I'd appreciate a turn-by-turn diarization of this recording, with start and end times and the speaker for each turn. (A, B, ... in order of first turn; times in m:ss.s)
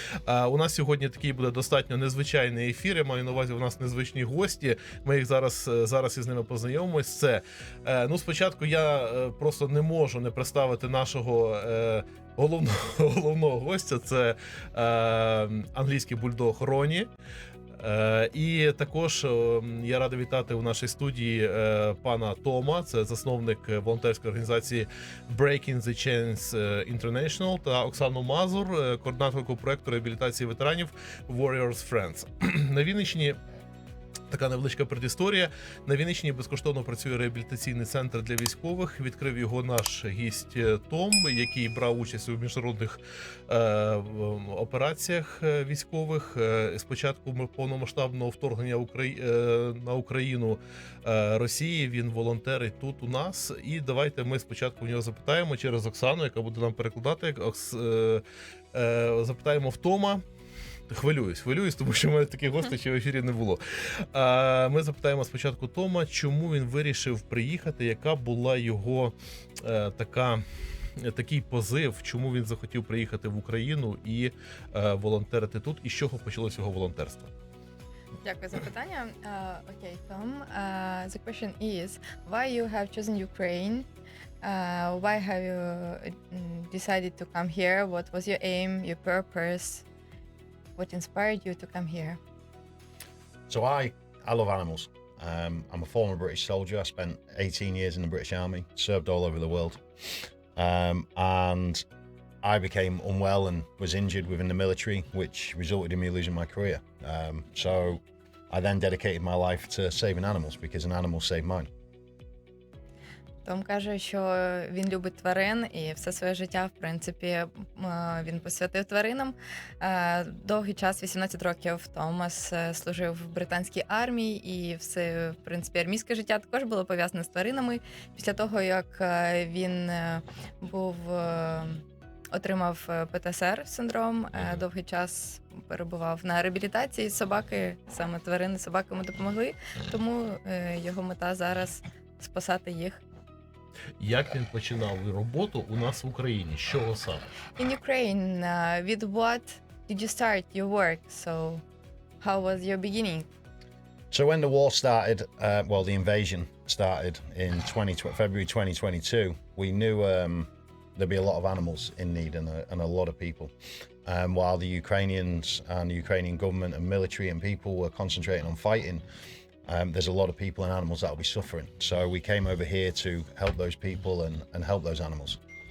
0:00.3-0:17.1 A
0:17.8-0:33.4 A
0:34.3-1:00.2 A
1:00.9-1:10.4 A
1:11.0-1:17.3 A
1:18.2-1:23.8 B
1:24.4-1:29.8 B
1:30.8-1:32.2 B
1:33.5-1:39.8 C
1:40.5-1:41.8 C
1:42.4-1:51.7 C
1:53.4-2:23.0 B
2:24.0-2:27.3 A
2:27.6-2:31.6 B
2:32.2-2:33.3 B
2:34.1-2:43.5 C
2:44.0-2:49.0 C
2:49.6-2:55.4 C